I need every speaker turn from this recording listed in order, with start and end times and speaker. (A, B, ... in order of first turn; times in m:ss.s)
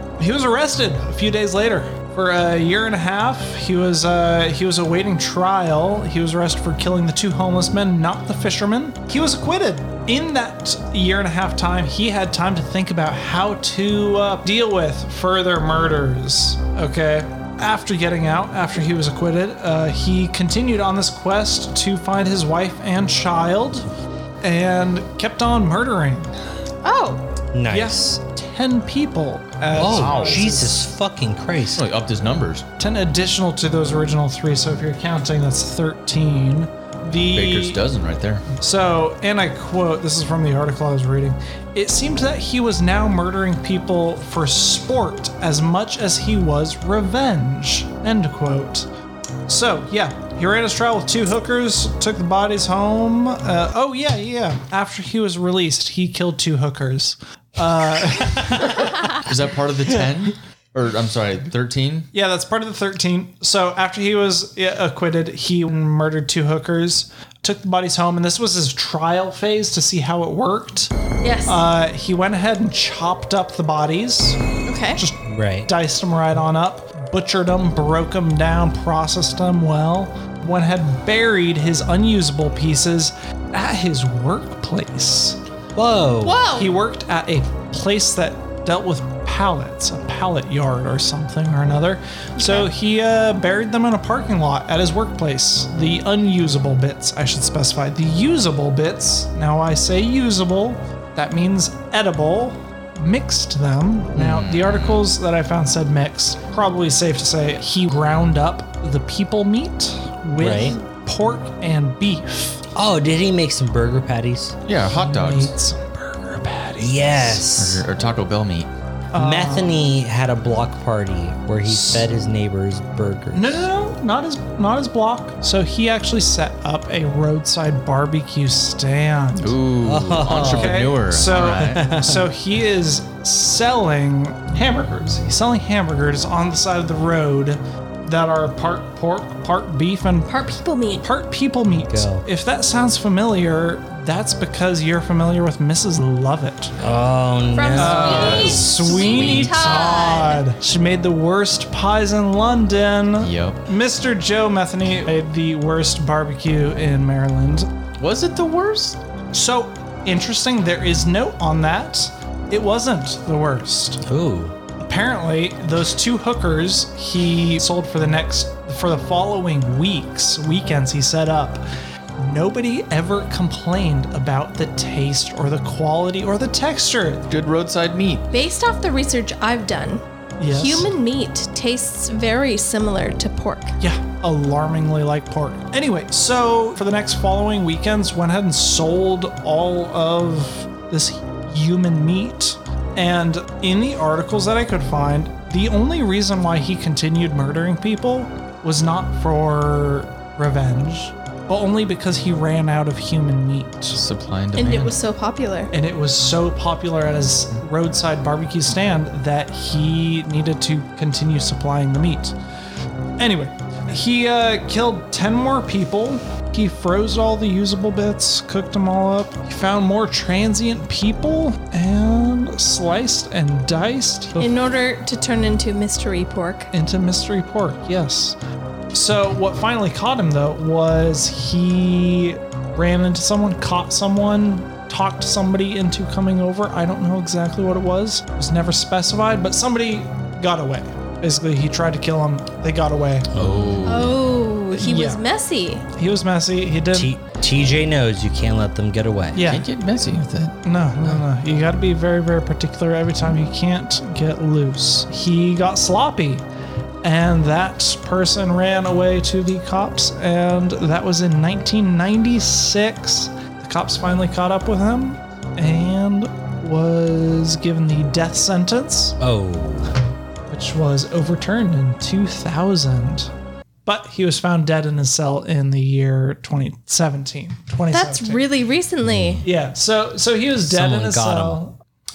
0:00.2-0:23.9 A
0:24.4-0:26.3 A
0:26.8-0:27.3 B
0:27.5-0:28.2 C
0:27.7-0:30.8 A
0:29.7-0:31.8 C
0:29.8-0:30.5 D
0:31.7-0:32.6 D
0:32.8-0:37.8 A
0:37.2-0:38.4 D
0:38.6-0:48.9 A
0:49.5-0:59.3 A
0:58.9-1:02.1 D
1:02.1-1:10.9 A
1:11.2-1:11.6 B
1:11.4-1:14.4 A
1:14.6-1:15.0 B
1:15.0-1:25.4 A
1:15.2-1:15.7 C
1:25.7-1:26.4 C
1:26.2-1:26.7 B
1:26.5-1:52.6 A
1:32.4-1:32.7 B
1:44.2-1:45.1 D
1:44.2-1:44.4 C
1:50.4-1:50.8 C
1:52.7-1:54.6 C
1:54.6-1:55.5 D
1:54.8-1:57.5 A
1:56.8-1:57.8 C
1:57.6-1:58.7 D
1:59.1-1:59.8 A
1:59.1-2:03.7 C
2:01.7-2:02.1 A
2:03.3-2:09.6 A
2:09.4-2:11.8 D
2:09.8-2:12.2 C
2:10.2-2:20.3 A
2:20.3-2:21.1 B
2:21.0-2:26.7 A
2:21.9-2:22.2 C
2:26.8-2:30.1 C
2:27.5-2:30.4 B
2:27.8-2:37.7 A
2:28.1-2:28.6 D
2:33.2-2:33.6 D
2:38.0-2:39.0 D
2:39.3-2:44.0 A
2:44.0-2:44.5 C
2:44.8-2:51.6 A
2:52.2-2:57.3 A
2:57.3-2:58.3 D
2:58.3-3:03.8 B
3:00.4-3:00.9 A
3:03.8-3:24.0 A
3:23.9-3:25.0 D
3:24.5-3:25.7 B
3:25.7-3:32.4 A
3:33.2-3:44.6 A
3:44.4-3:46.7 B
3:46.7-3:48.4 A
3:48.9-4:03.3 A
4:03.3-4:03.7 C
4:03.4-4:04.3 D
4:03.8-4:05.9 B
4:04.7-4:05.2 A
4:05.9-4:07.1 A
4:06.9-4:09.4 C
4:09.3-4:09.7 A
4:09.4-4:10.6 D
4:10.6-4:16.4 A
4:17.0-4:29.2 A
4:29.2-4:29.9 C
4:30.5-4:33.3 A
4:33.8-4:38.4 A
4:37.9-4:39.4 B
4:39.1-4:39.4 C
4:39.4-4:41.8 A
4:40.6-4:41.6 C